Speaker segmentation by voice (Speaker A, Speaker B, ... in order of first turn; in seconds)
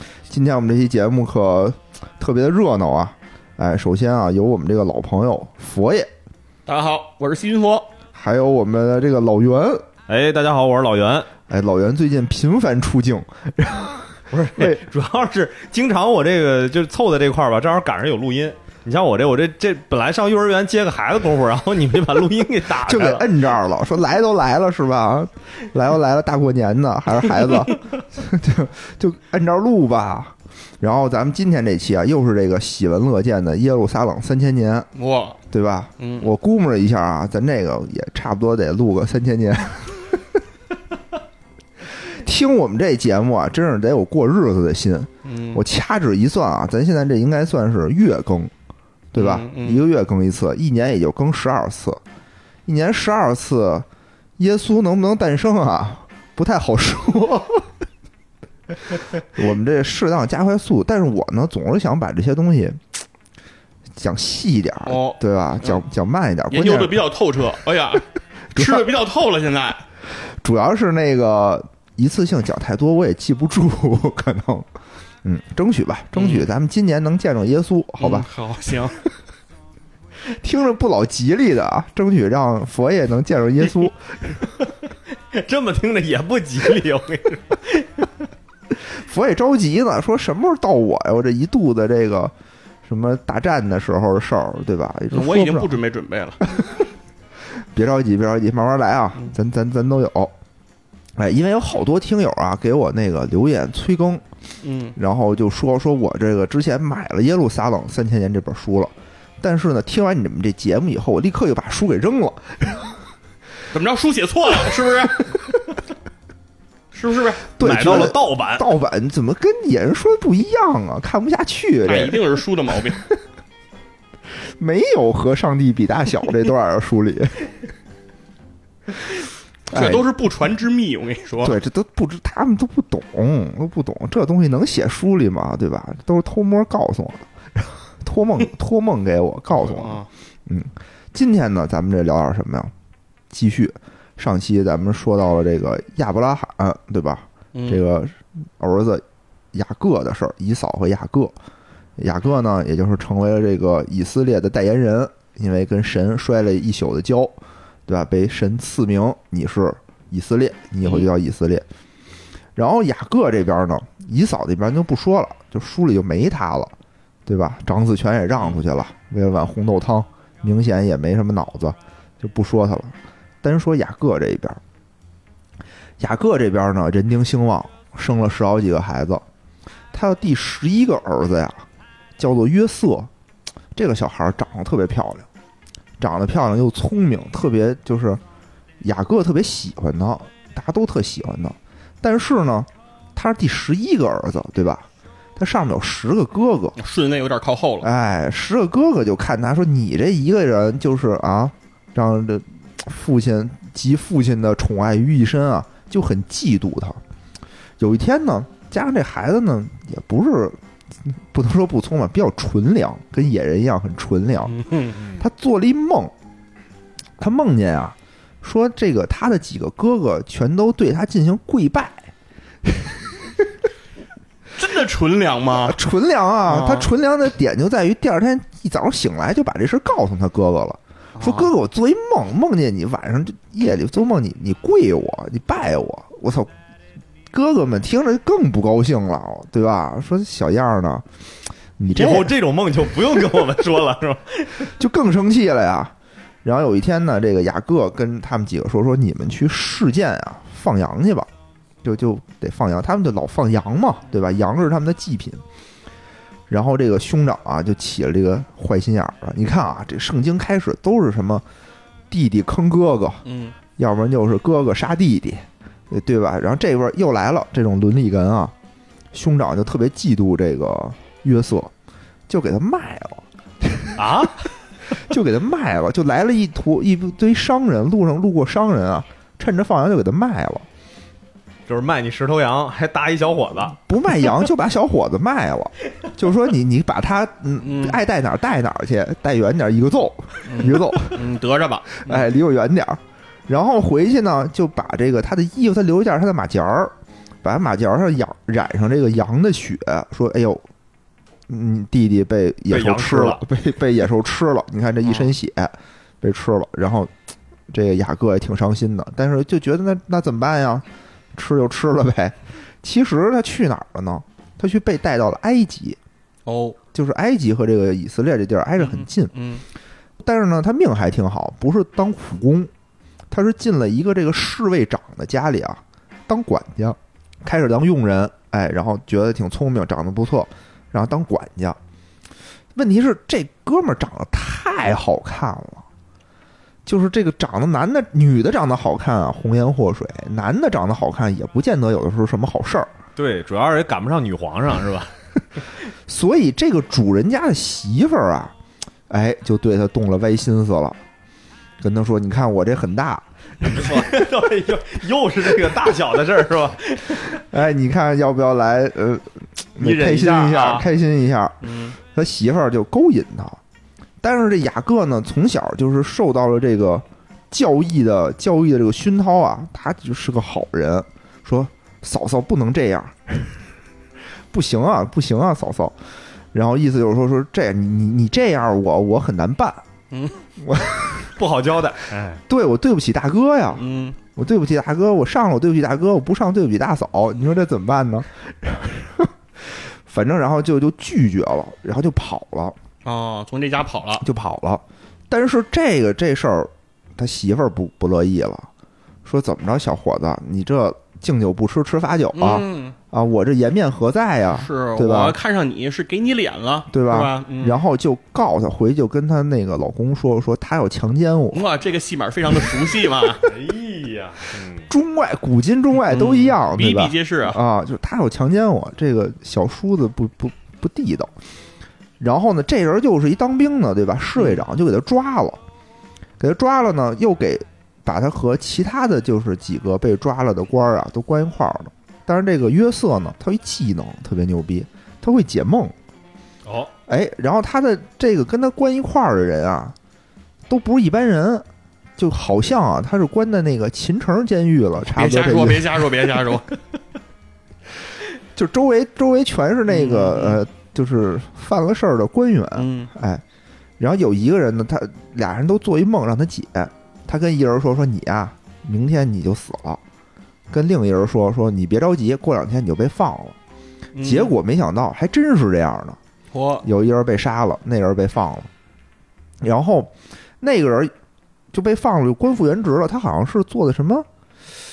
Speaker A: 0.3-6.1, 8.1-9.8, 11.5-14.8, 22.8-34.9, 35.5-40.2, 42.0-48.5, 49.1-52.0, 52.6-53.9, 54.4-57.7, 59.3-62.8, 64.0-67.0, 68.5-68.9, 70.2-74.7, 75.2-78.3, 80.3-84.5, 88.8-92.3, 92.8-95.8, 97.7-100.3, 101.2-104.2, 105.0-113.0, 117.5-122.2, 124.6-127.5, 129.7-130.0, 131.4-142.7, 143.3-151.3, 152.0-161.6, 162.5-166.7, 167.2-174.6, 176.0-179.2, 179.9-181.6, 182.2-183.1, 183.7-185.3, 186.0-188.2, 188.8-196.8, 197.8-207.0, 207.8-214.6, 215.1-216.1, 217.2-222.1, 222.6-223.5, 225.5-236.5, 237.3-241.1, 241.8-242.3, 244.7-251.3, 251.8-255.4, 256.5-261.4, 262.1-263.2, 263.8-268.5, 269.1-271.7, 272.3-274.3, 274.9-280.6, 283.9-291.2, 291.9-296.9, 297.4-300.6, 301.5-307.1, 307.7-316.0, 316.9-319.3, 320.2-322.7, 323.3-331.8, 332.7-335.9, 336.9-342.9, 346.1-348.5, 349.1-351.0, 351.8-353.9, 357.1-363.6, 364.2-373.5, 374.5-375.9, 376.5-379.8, 380.6-381.3, 382.5-392.8, 394.2-398.7, 399.2-405.4, 406.9-411.7, 414.9-421.3, 422.2-425.6, 426.4-435.9, 437.1-439.9, 440.7-441.6, 442.2-446.1, 448.5-453.4, 454.0-460.0, 460.7-463.6, 464.2-466.2, 466.8-468.7, 469.6-471.1, 471.7-474.2
Speaker B: 6.7-7.9, 35.0-35.4, 36.0-36.3, 45.2-45.6, 49.1-49.8, 64.8-65.8, 66.5-69.8, 76.1-76.5, 78.0-79.0, 95.1-96.4, 104.6-105.0, 113.7-115.2, 116.9-117.4, 121.9-123.0, 129.7-131.6, 139.5-140.1, 147.5-147.8, 160.8-161.1, 196.8-197.9, 214.5-215.0, 224.6-225.8, 226.5-226.9, 231.2-231.5, 263.2-263.5, 287.6-288.0, 290.5-292.3, 305.0-305.3, 316.4-316.8, 318.8-319.6, 361.6-361.9, 380.1-380.4, 383.8-384.2, 393.0-394.2, 402.3-402.9, 404.5-407.8, 411.5-413.5, 416.0-417.6, 424.4-424.6, 445.0-446.7, 449.9-450.6, 452.8-453.1, 464.1-464.5, 466.5-466.9
Speaker C: 10.1-11.3, 14.3-23.3, 85.3-87.7, 117.6-118.7, 241.9-244.7, 273.9-274.5, 281.7-283.8, 302.7-303.4, 343.1-345.1, 353.6-357.4, 359.8-360.9, 381.3-382.4, 413.4-414.9, 436.6-436.9